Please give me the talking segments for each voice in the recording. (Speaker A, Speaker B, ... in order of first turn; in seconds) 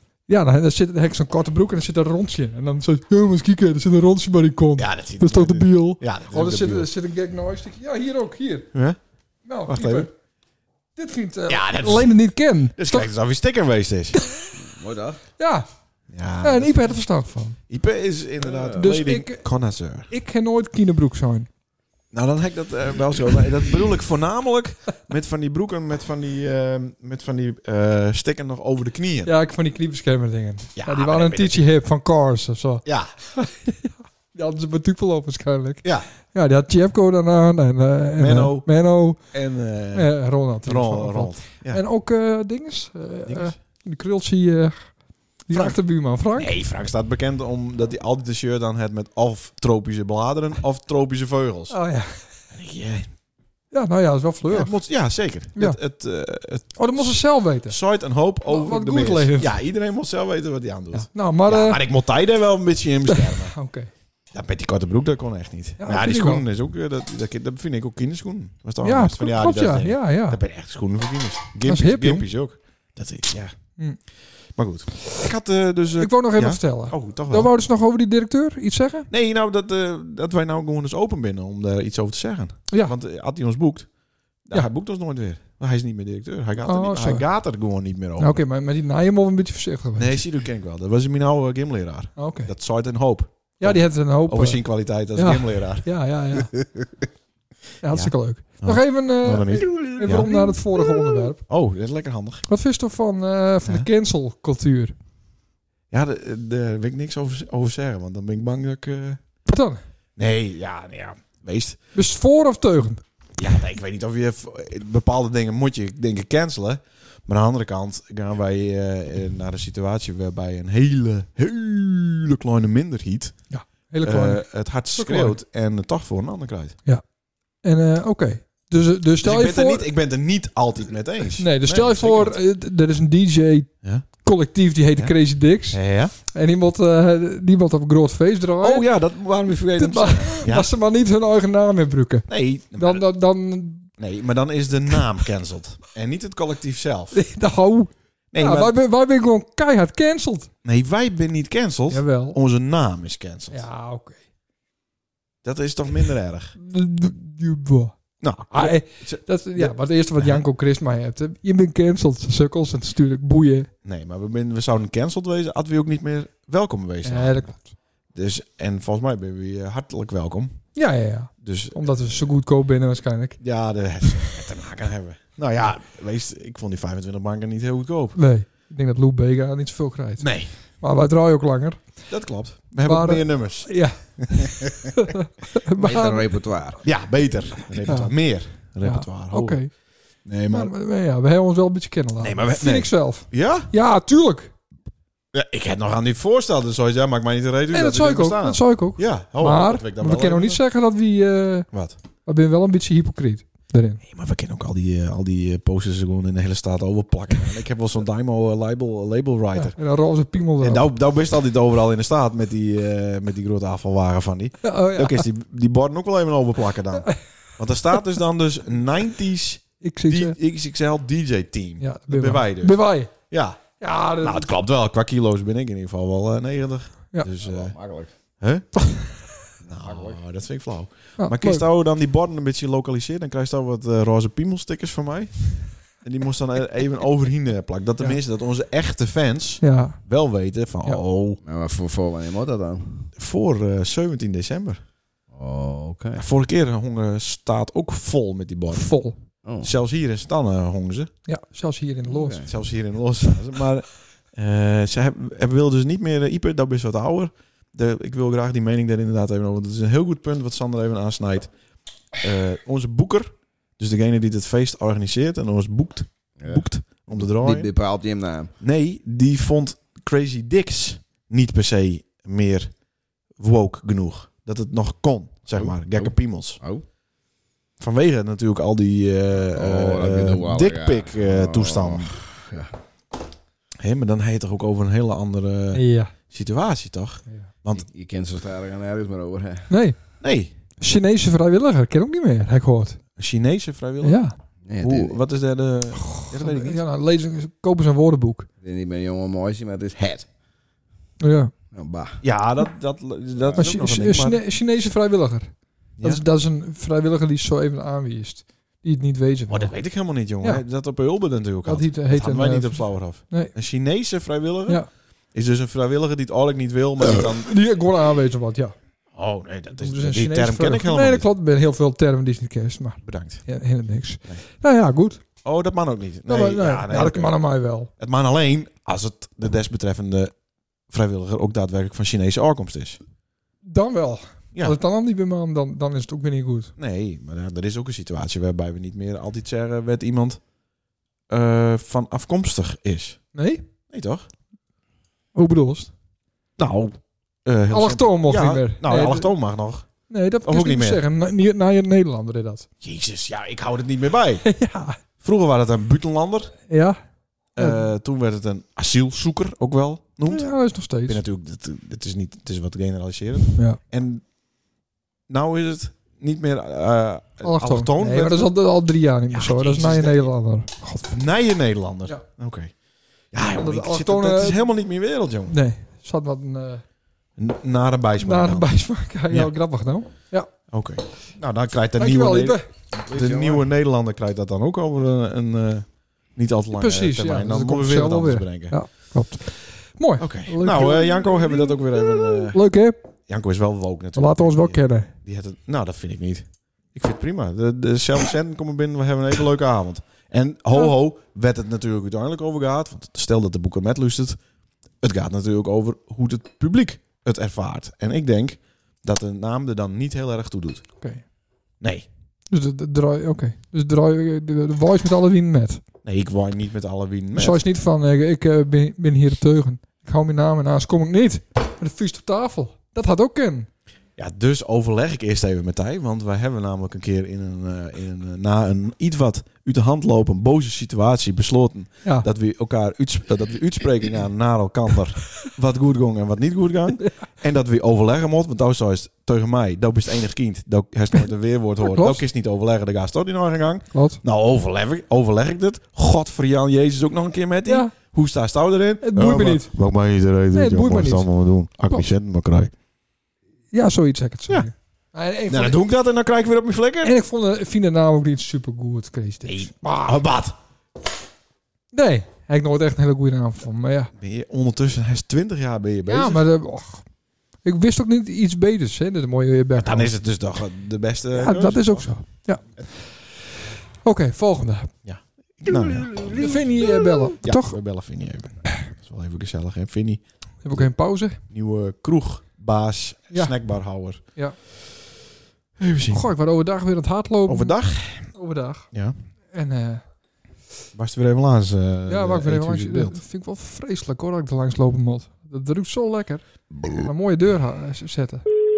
Speaker A: 0.3-8.7, 9.4-10.1, 10.9-13.1, 15.4-15.7, 16.4-17.6, 18.8-19.4, 20.1-21.5, 29.2-39.2, 39.9-46.5, 51.7-52.2, 53.7-54.7, 56.8-57.8, 58.5-59.5, 60.9-61.8, 63.1-63.9, 65.8-66.4, 68.8-70.4, 71.7-72.2, 76.0-79.1, 82.7-82.9, 86.6-87.2, 88.2-90.2, 92.2-92.5, 93.6-96.5, 97.8-101.4, 102.5-104.9, 109.5-109.8, 111.9-113.0, 123.5-125.4, 127.6-129.9, 131.4-138.9, 139.8-143.9, 147.1-150.5, 151.9-152.4, 153.5-154.2, 156.6-157.9, 158.5-163.7, 167.0-167.7, 170.7-173.4, 178.2-181.8, 182.8-186.3, 187.8-188.1, 188.8-189.7, 190.5-194.5, 197.7-201.7, 202.2-204.0, 209.6-210.9, 214.6-215.3, 219.8-220.4, 221.8-223.1, 223.8-224.5, 231.2-231.6, 239.6-240.0, 248.7-249.2, 251.2-252.4, 285.7-286.1, 289.7-290.0, 290.8-293.0, 294.0-294.4, 296.1-298.5, 301.2-301.5, 303.6-309.8, 311.6-313.5, 317.4-318.7, 319.8-325.2, 326.3-327.9, 333.6-336.7, 343.3-343.6, 345.3-345.9, 347.7-349.3, 350.1-352.7, 354.4-355.0, 356.7-357.0, 357.6-357.8, 360.2-361.2, 367.4-371.1, 373.5-374.6, 375.5-376.8, 378.2-380.5, 382.0-382.7, 386.8-393.0, 394.1-395.1, 412.5-415.8, 417.3-423.7, 441.8-442.2, 443.9-444.2, 447.6-447.9, 449.0-449.7, 450.5-451.3, 453.7-455.8, 457.0-460.2, 461.9-464.1, 466.1-467.1, 467.6-470.1, 471.3-473.3, 474.0-474.9, 476.3-477.8, 480.6-481.4, 486.1-488.9, 489.5-490.0, 492.1-498.4
Speaker B: 4.8-6.9, 8.7-9.0, 9.7-10.1, 11.5-12.1, 12.8-14.2, 16.1-17.0, 17.7-20.1, 22.1-29.3, 30.8-31.7, 32.8-33.1, 38.2-41.8, 43.2-43.5, 45.5-45.8, 46.3-51.8, 52.5-53.1, 54.5-63.5, 64.3-73.5, 74.5-77.5, 79.1-83.9, 84.4-88.4, 90.0-97.0, 97.9-100.5, 101.5-102.4, 105.9-109.2, 110.2-111.8, 113.4-123.4, 124.0-126.8, 129.2-132.4, 133.8-134.1, 134.9-136.1, 138.6-140.7, 142.3-143.0, 144.0-147.2, 148.3-148.7, 150.6-153.6, 155.4-156.5, 158.2-160.4, 163.8-167.5, 168.1-170.7, 171.4-172.3, 173.4-178.2, 180.2-180.5, 182.1-185.1, 186.8-189.7, 190.2-190.7, 192.2-193.7, 195.3-200.6, 204.0-209.8, 210.6-223.6, 224.2-227.7, 228.4-228.9, 229.6-241.4, 243.2-244.8, 246.2-249.0, 249.6-251.1, 252.4-261.5, 262.2-267.7, 268.6-272.8, 273.4-276.6, 277.8-282.2, 283.8-287.9, 290.2-290.5, 293.2-294.3, 294.8-296.8, 302.2-304.4, 306.0-306.2, 309.5-317.5, 319.1-321.3, 323.0-323.4, 325.4-327.4, 327.9-330.3, 330.9-333.0, 336.8-340.4, 341.3-343.2, 343.9-344.3, 346.6-349.9, 350.4-351.0, 352.8-354.5, 355.2-356.6, 357.5-364.2, 365.3-368.5, 369.3-370.3, 371.1-372.7, 373.3-375.6, 377.4-378.7, 379.3-379.6, 380.7-388.8, 390.2-392.6, 393.3-404.4, 405.0-410.9, 411.8-412.1, 416.0-417.6, 424.2-452.7, 455.5-457.1, 459.4-460.6, 464.2-466.4, 469.8-472.1, 475.0-476.8, 477.4-480.9, 481.4-484.2, 485.8-486.2, 487.5-488.3, 490.9-493.2
Speaker C: 14.6-15.2, 18.4-18.8, 185.8-186.8, 227.4-228.1, 229.8-230.2, 241.4-243.1, 245.3-246.2, 249.4-249.7, 252.1-252.5, 266.4-268.5, 275.5-276.9, 279.5-282.8, 287.7-289.7, 294.6-295.2, 298.6-300.3, 301.7-302.2, 303.4-303.6, 383.0-383.6